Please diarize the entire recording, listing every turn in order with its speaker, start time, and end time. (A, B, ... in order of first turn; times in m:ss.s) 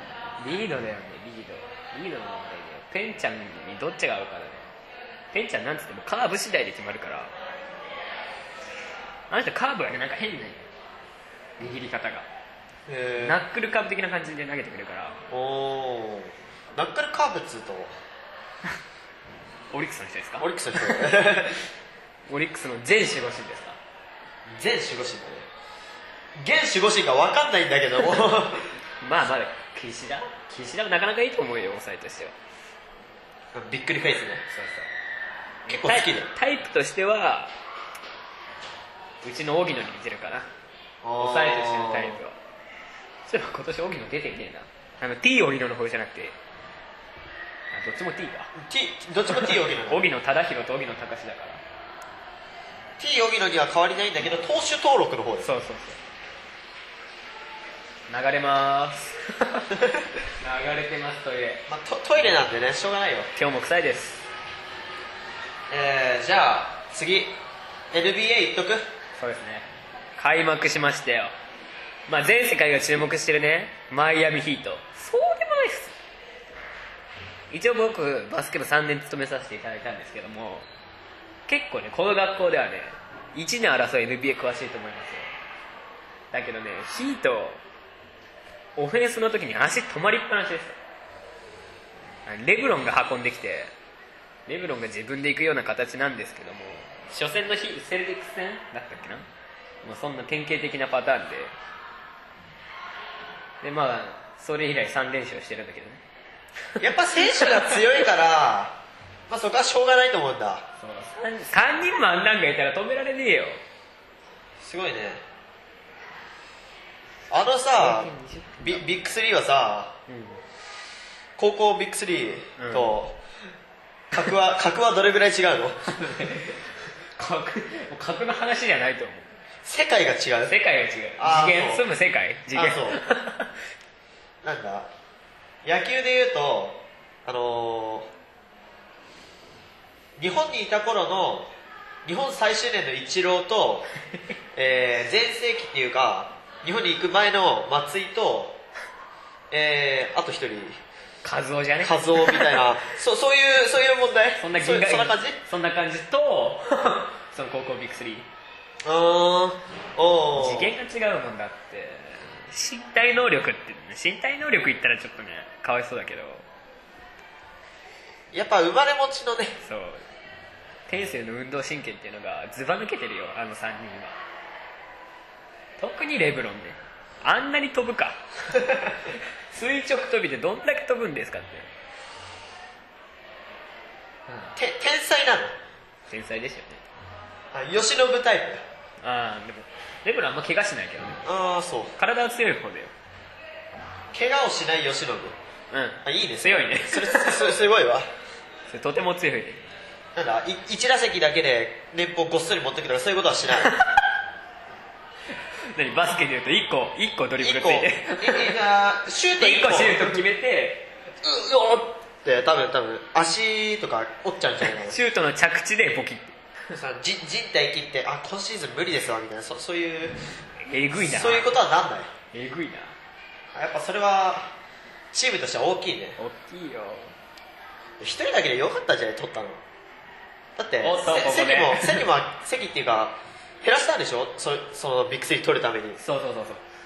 0:00.4-0:04.7 A
0:05.3-0:07.3 A
0:09.3-0:10.6 A
0:11.6-0:12.3 A
0:12.9-0:13.4 B
0:13.2-0:15.2 A
0:15.3-0:17.9 B
0:19.7-0:21.1 A
0:20.4-0:21.6 B
0:22.3-0:23.8 A
0:24.5-0:25.4 B
0:26.4-0:28.7 B
0:29.0-0:32.3 A
0:33.5-0:34.4 B
0:34.5-0:34.9 A
0:35.6-0:37.5 A
0:35.7-0:36.3 B
0:39.2-0:40.5 A
0:41.0-0:42.2 B
0:41.2-0:42.4 A
0:43.2-0:46.4 A
0:47.7-0:48.5 A
0:48.6-0:50.0 B
0:49.3-0:51.6 A
0:53.0-0:55.5 B
0:55.4-0:56.0 A
0:58.1-0:59.7 A
1:00.4-1:01.6 A
1:01.7-1:03.3 B
1:03.3-1:04.3 A
1:05.7-1:07.4 B
1:07.9-1:08.8 B
1:09.2-1:11.3 A
1:12.1-1:16.0 A
1:17.5-1:20.7 A
1:21.5-1:25.3 A
1:26.3-1:27.6 A
1:28.8-1:30.8 A
1:32.2-1:33.7 A
1:34.5-1:39.3 A
1:39.8-1:41.5 A
1:43.6-1:46.0 A
1:46.8-1:48.8 B
1:49.3-1:50.6 B
1:50.8-1:53.6 A
1:54.6-1:55.2 B
1:57.3-1:59.9 B
1:57.7-1:58.9 A
2:00.1-2:00.4 A
2:01.4-2:03.2 B
2:02.6-2:02.9 A
2:04.1-2:05.8 B
2:05.9-2:09.3 A
2:09.6-2:10.6 B
2:10.5-2:13.5 A
2:11.2-2:11.8 B
2:12.5-2:13.0 B
2:14.4-2:14.9 B
2:15.6-2:18.1 B
2:20.2-2:21.5 B
2:22.0-2:23.8 B
2:24.5-2:28.6 B
2:29.5-2:30.8 B
2:31.2-2:32.6 A
2:31.8-2:35.4 B
2:34.4-2:38.3 A
2:38.8-2:40.7 B
2:40.3-2:46.4 A
2:48.3-2:49.6 B
2:49.6-2:50.0 A
2:50.9-2:54.2 A
2:55.8-2:58.2 A
2:59.5-3:01.7 A
3:04.3-3:04.5 A
3:04.5-3:05.5 B
3:06.0-3:06.8 A
3:07.5-3:08.6 B
3:09.0-3:11.2 A
3:11.2-3:11.9 B
3:12.0-3:12.9 A
3:14.1-3:15.4 B
3:15.7-3:17.5 A
3:16.0-3:18.1 B
3:18.7-3:19.6 A
3:20.1-3:23.7 B
3:25.7-3:28.5 A
3:27.4-3:30.2 B
3:29.4-3:30.9 A
3:31.2-3:35.0 B
3:34.6-3:36.4 A
3:36.7-3:40.3 B
3:40.6-3:41.5 A
3:41.0-3:42.1 B
3:42.3-3:42.9 A
3:43.5-3:44.5 B
3:45.1-3:46.2 B
3:46.2-3:47.1 A
3:48.0-3:49.6 B
3:50.6-3:56.0 B
3:50.8-3:52.0 A
3:56.0-3:56.6 A